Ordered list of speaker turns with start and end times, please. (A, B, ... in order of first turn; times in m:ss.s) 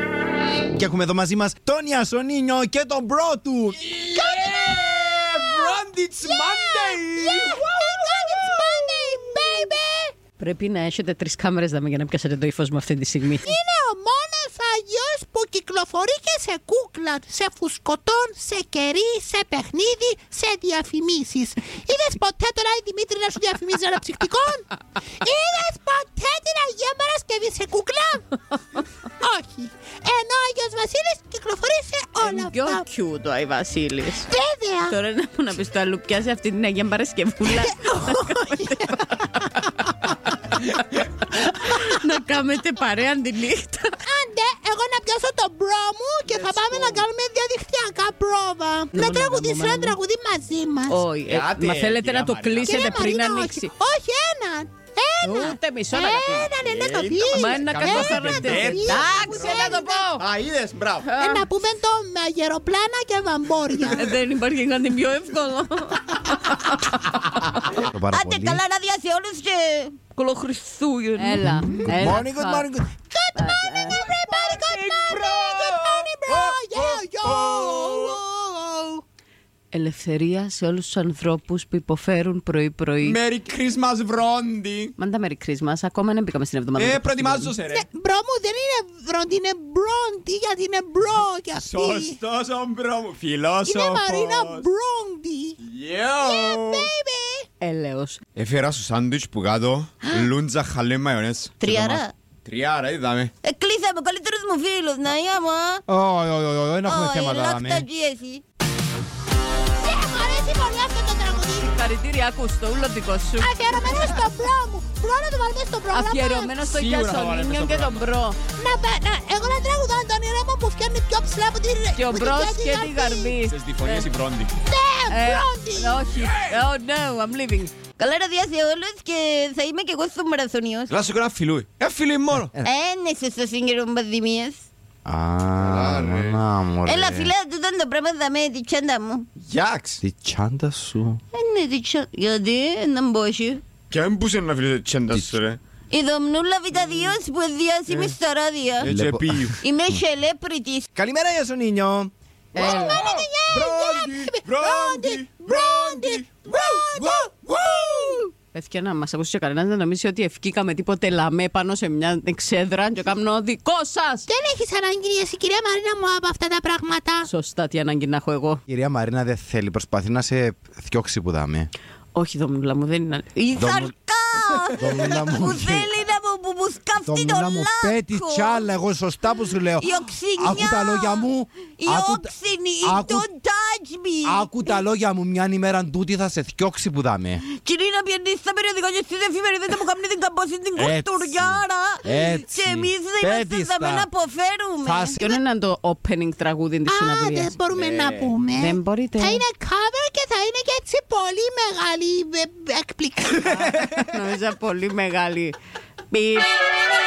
0:00.7-0:03.9 A
0:03.8-0:09.0 B
0:04.1-0:04.6 C
0:05.6-0:10.1 C
0:10.4-0:13.5 D
0:13.4-0:28.4 C
0:29.2-0:32.8 C
0:32.2-0:34.3 D
0:34.3-0:35.0 C
0:34.9-0:43.9 D
0:37.6-0:38.7 C
0:44.0-0:51.0 C
0:46.3-0:47.0 B
0:48.9-0:50.0 D
0:50.9-0:53.7 D
0:51.3-0:52.8 B
0:52.6-1:00.2 C
0:55.2-0:56.5 D
0:56.6-0:59.6 B
0:57.3-1:00.2 D
1:00.2-1:01.1 B
1:01.0-1:01.5 D
1:01.2-1:04.1 C
1:03.8-1:04.0 B
1:03.9-1:07.0 D
1:07.7-1:08.6 A
1:08.1-1:11.4 E
1:11.2-1:12.7 D
1:11.6-1:12.2 C
1:11.8-1:12.9 A
1:13.1-1:19.0 C
1:13.4-1:14.0 D
1:14.3-1:18.2 B
1:19.7-1:23.2 D
1:23.0-1:24.9 B
1:25.0-1:27.6 D
1:26.8-1:27.9 B
1:27.7-1:32.2 C
1:31.6-1:34.7 B
1:33.6-1:35.6 C
1:35.6-1:36.9 B
1:36.2-1:37.4 C
1:37.6-1:38.2 D
1:38.4-1:43.3 B
1:40.0-1:40.3 E
1:41.6-1:42.1 E
1:43.4-1:45.8 E
1:45.9-1:47.9 A
1:46.9-1:48.4 E
1:49.8-1:51.7 C
1:51.6-1:53.6 D
1:53.4-1:56.6 C
1:55.9-1:58.4 D
1:56.7-1:58.0 B
1:58.6-2:03.3 C
2:01.9-2:04.1 D
2:03.4-2:04.6 B
2:04.7-2:06.0 C
2:05.1-2:07.7 D
2:08.0-2:10.9 E
2:10.9-2:12.5 B
2:12.6-2:14.6 E
2:15.0-2:17.3 A
2:15.6-2:16.4 B
2:16.8-2:19.3 E
2:19.4-2:20.0 B
2:20.0-2:21.2 A
2:21.3-2:23.6 E
2:23.9-2:25.6 B
2:25.9-2:28.9 E
2:28.8-2:29.6 B
2:28.8-2:30.0 A
2:29.6-2:30.9 E
2:30.9-2:32.1 A
2:32.5-2:33.1 D
2:32.5-2:38.2 C
2:32.6-2:37.9 B
2:38.5-2:44.3 D
2:44.3-2:47.3 C
2:47.2-2:48.6 D
2:48.7-2:51.7 A
2:52.1-2:53.4 D
2:53.4-2:58.7 E
2:53.5-2:53.9 A
2:54.7-2:55.9 A
2:57.0-3:03.3 A
2:59.8-3:04.5 E
3:04.2-3:07.4 A
3:07.5-3:15.4 E
3:10.8-3:14.1 A
3:14.8-3:15.2 A
3:15.2-3:17.6 D
3:16.9-3:24.0 C
3:17.7-3:18.3 B
3:18.5-3:19.4 D
3:23.5-3:25.6 D
3:26.1-3:26.5 D